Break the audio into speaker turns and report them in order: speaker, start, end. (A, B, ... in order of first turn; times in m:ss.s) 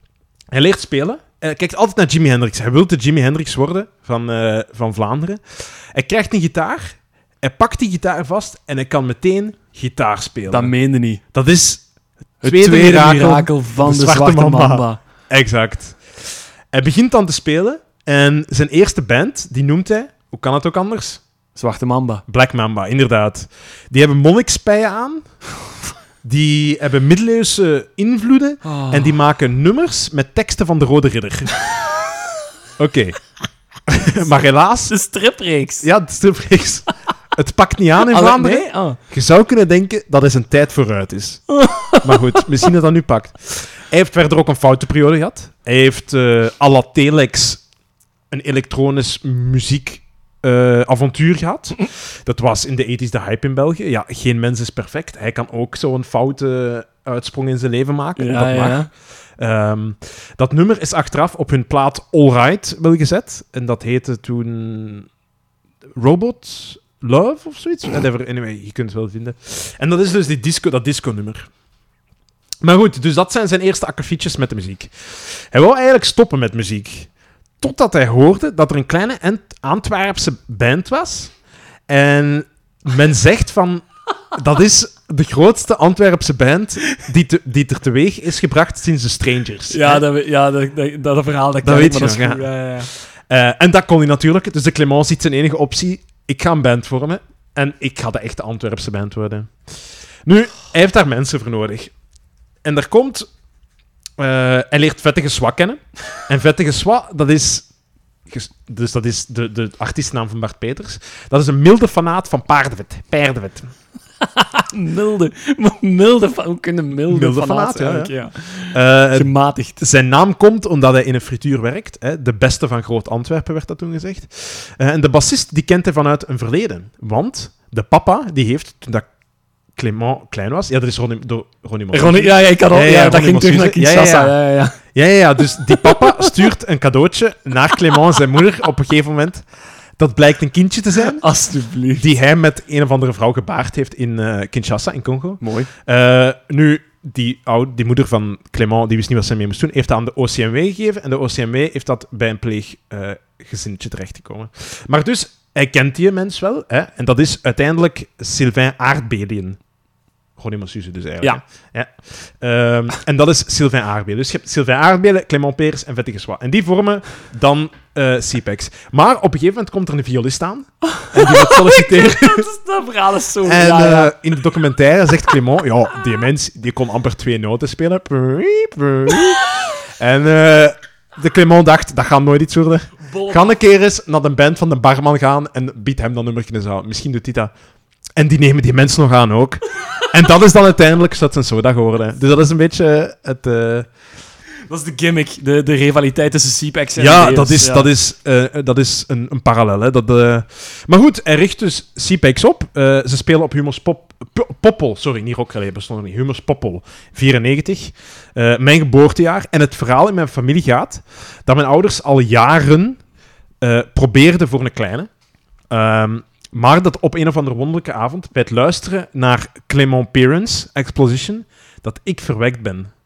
0:00.5-0:10.7 A
0:10.5-0:11.2 B
0:11.3-0:11.9 A
0:12.4-0:21.2 A
0:12.4-0:15.0 B
0:21.6-0:22.2 B
0:22.3-0:25.3 A
0:26.2-0:31.6 A
0:28.6-0:29.2 B
0:32.8-0:33.2 A
0:33.9-0:34.9 A
0:34.9-0:35.9 B
0:35.8-0:41.4 A
0:38.0-0:39.0 B
0:41.6-0:42.4 B
0:42.0-0:47.6 A
0:48.3-0:58.9 A
0:58.2-0:58.9 B
0:59.4-1:05.1 A
1:06.0-1:11.5 A
1:12.6-1:21.3 A
1:21.9-1:30.0 A
1:29.7-1:32.9 B
1:31.6-1:39.5 A
1:40.3-1:41.9 A
1:42.6-1:43.3 A
1:44.2-1:47.7 A
1:48.3-1:53.7 A
1:54.4-1:59.8 B
1:57.1-1:58.1 A
1:58.7-2:09.1 A
2:09.8-2:14.4 A
2:11.9-2:14.8 B
2:14.9-2:19.5 A
2:15.7-2:16.3 B
2:20.0-2:21.2 A
2:21.0-2:22.0 B
2:21.9-2:39.6 A
2:25.4-2:25.7 B
2:40.4-2:52.5 A
2:51.0-2:54.2 B
2:53.4-3:07.5 A
3:03.1-3:03.6 B
3:08.2-3:13.9 A
3:14.7-3:17.9 B
3:17.0-3:33.0 A
3:33.6-3:35.1 A
3:35.7-3:42.9 A